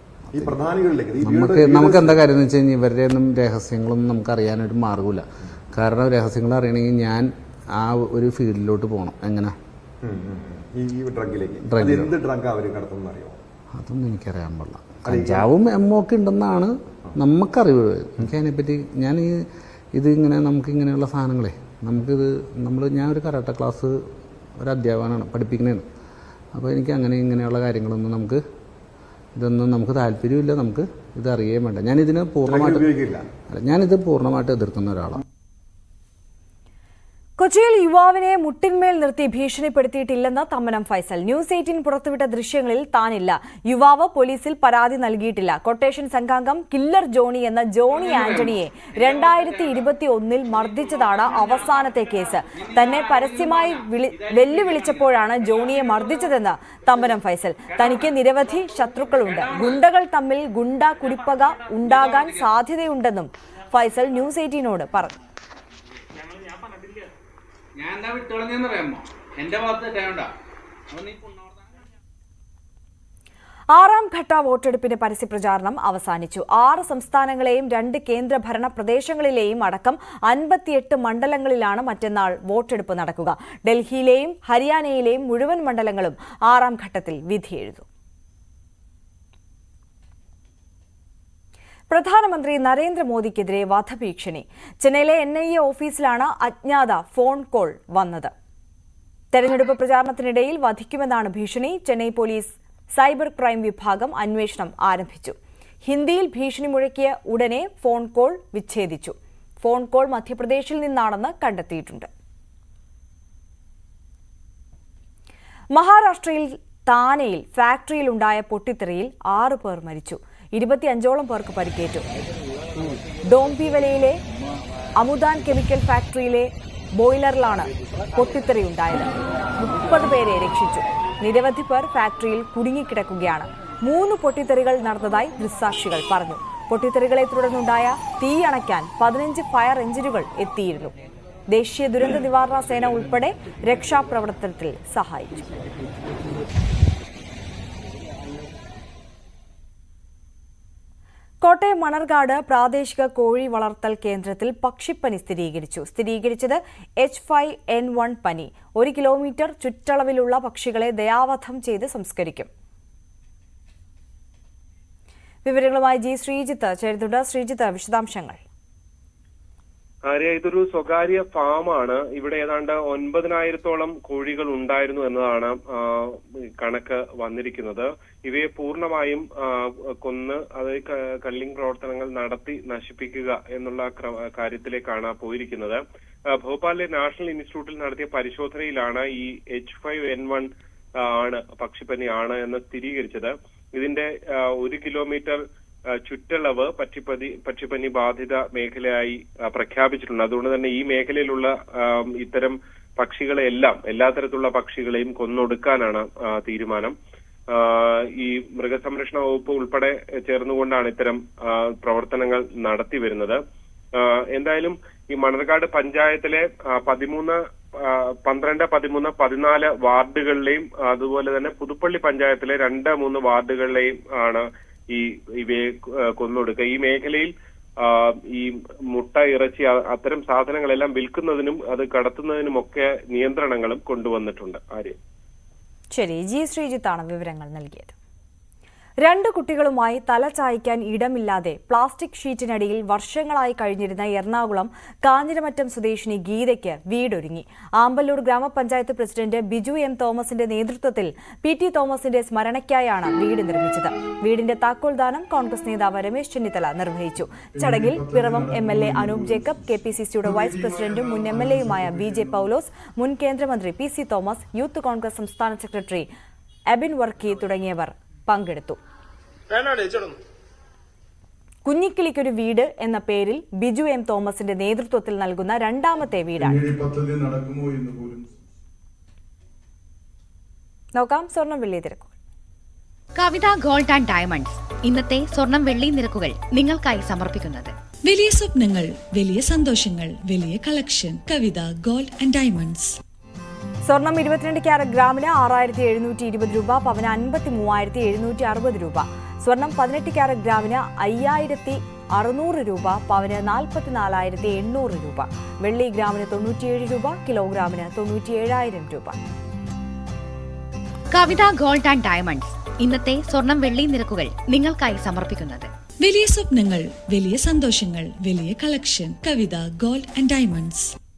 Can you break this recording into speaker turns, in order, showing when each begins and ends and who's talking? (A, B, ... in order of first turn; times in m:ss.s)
0:00.3-0:02.2 A
0:01.2-0:09.5 B
0:10.0-0:13.4 A
0:11.6-0:12.1 B
0:13.7-0:19.4 B
0:15.0-0:15.5 A
0:19.9-0:23.9 B
0:24.6-0:25.8 B
0:26.5-0:28.4 B
0:29.4-0:32.9 B
0:32.4-0:33.2 A
0:33.5-0:35.2 B
0:37.4-1:05.1 C
0:47.9-0:49.8 D
0:50.8-0:51.9 D
0:52.5-0:56.2 D
0:57.7-0:58.1 D
0:59.2-0:59.8 D
1:01.8-1:02.5 D
1:06.2-1:07.0 D
1:07.8-1:10.3 D
1:10.9-1:11.7 D
1:13.7-1:27.8 C
1:31.9-1:38.3 C
1:39.3-1:52.1 C
1:55.7-2:02.0 C
2:03.2-2:04.2 C
2:05.0-2:20.9 C
2:21.5-2:25.4 C
2:31.4-2:42.5 C
2:45.4-2:48.4 C
2:50.1-3:10.5 E
3:11.0-3:15.4 E
3:16.0-3:27.0 E
3:27.5-3:33.4 E
3:34.0-3:47.3 E
3:47.8-3:55.0 E
3:56.0-3:57.9 C
3:59.0-4:26.1 C
4:17.5-4:22.5 F
4:26.7-4:28.8 C
4:29.5-4:30.1 D
4:31.6-4:36.6 C
4:36.4-4:38.3 F
4:41.0-4:42.1 C
4:43.2-4:47.7 G
4:48.0-4:53.0 H
4:53.9-5:09.2 C
5:11.1-5:15.7 G
5:16.0-5:20.9 H